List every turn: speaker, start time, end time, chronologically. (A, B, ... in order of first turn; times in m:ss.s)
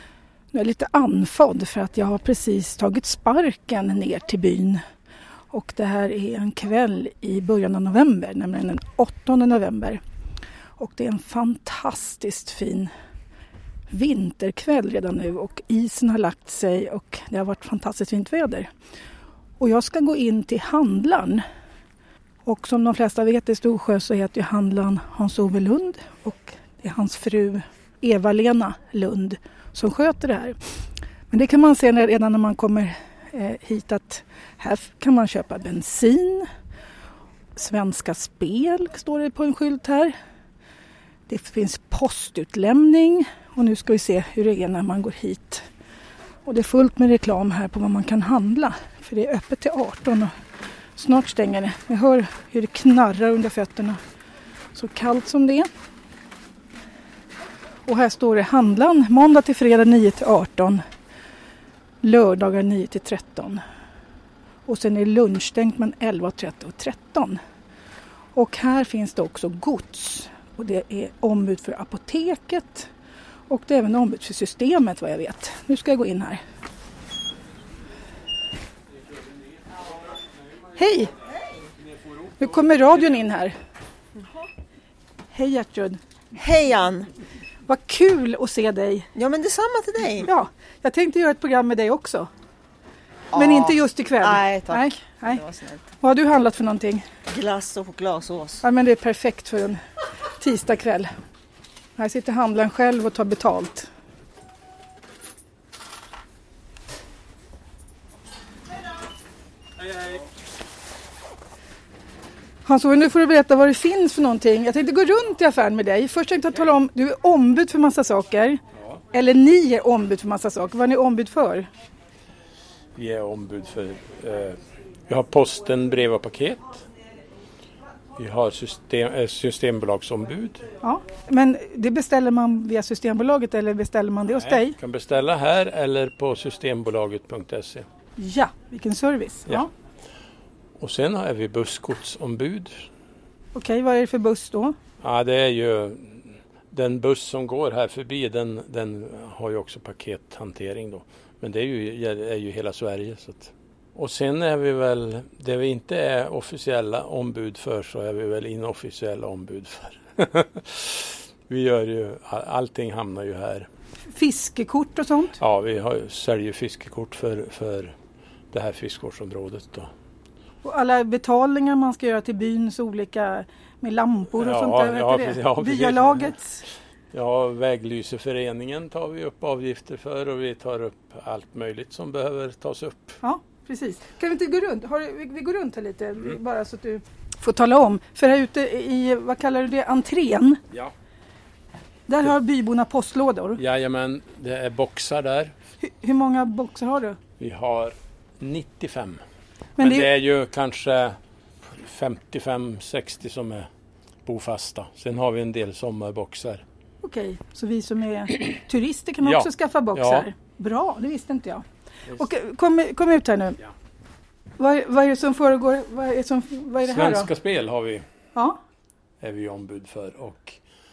0:00.5-0:04.8 A
0:05.5-0:10.0 A
0:10.8-0:12.9 A
0:13.9-0:18.7 A
0:19.6-0:21.4 A
0:22.4-0:30.6 A
0:31.3-0:36.5 A
0:37.6-0:40.2 A
0:41.3-0:45.7 A
0:46.5-0:50.3 A
0:51.0-0:54.0 A
0:54.7-0:55.7 A
0:57.9-1:00.8 A
1:02.0-1:03.6 A
1:04.7-1:07.4 A
1:08.4-1:12.9 A
1:13.5-1:16.4 A
1:19.2-1:20.7 B
1:20.8-1:21.1 A
1:21.8-1:23.2 B
1:22.4-1:23.6 A
1:25.3-1:26.0 A
1:26.3-1:27.1 C
1:27.7-1:29.1 A
1:29.2-1:30.3 C
1:30.3-1:32.3 A
1:33.3-1:35.8 C
1:33.3-1:35.4 A
1:36.0-1:37.1 A
1:37.3-1:38.6 C
1:38.6-1:39.8 A
1:40.4-1:41.1 A
1:42.0-1:43.9 A
1:52.6-1:58.6 A
1:59.1-2:01.7 A
2:03.0-2:06.9 B
2:08.2-2:10.7 B
2:10.8-2:14.8 A
2:14.4-2:17.9 B
2:18.2-2:19.7 A
2:20.8-2:22.9 B
2:23.6-2:24.8 A
2:25.0-2:43.7 B
2:44.1-2:45.4 A
2:45.4-2:48.0 B
2:48.5-2:49.9 B
2:50.6-2:56.6 A
2:54.4-2:56.4 B
2:57.1-3:03.2 B
3:03.2-3:10.6 A
3:12.1-3:13.6 A
3:13.6-3:15.6 B
3:15.8-3:17.2 A
3:17.4-3:19.2 B
3:19.8-3:20.1 A
3:19.8-3:23.7 B
3:24.2-3:26.6 B
3:27.0-3:33.6 A
3:29.2-3:30.3 B
3:34.6-3:37.3 A
3:36.8-3:38.0 B
3:39.2-3:40.6 B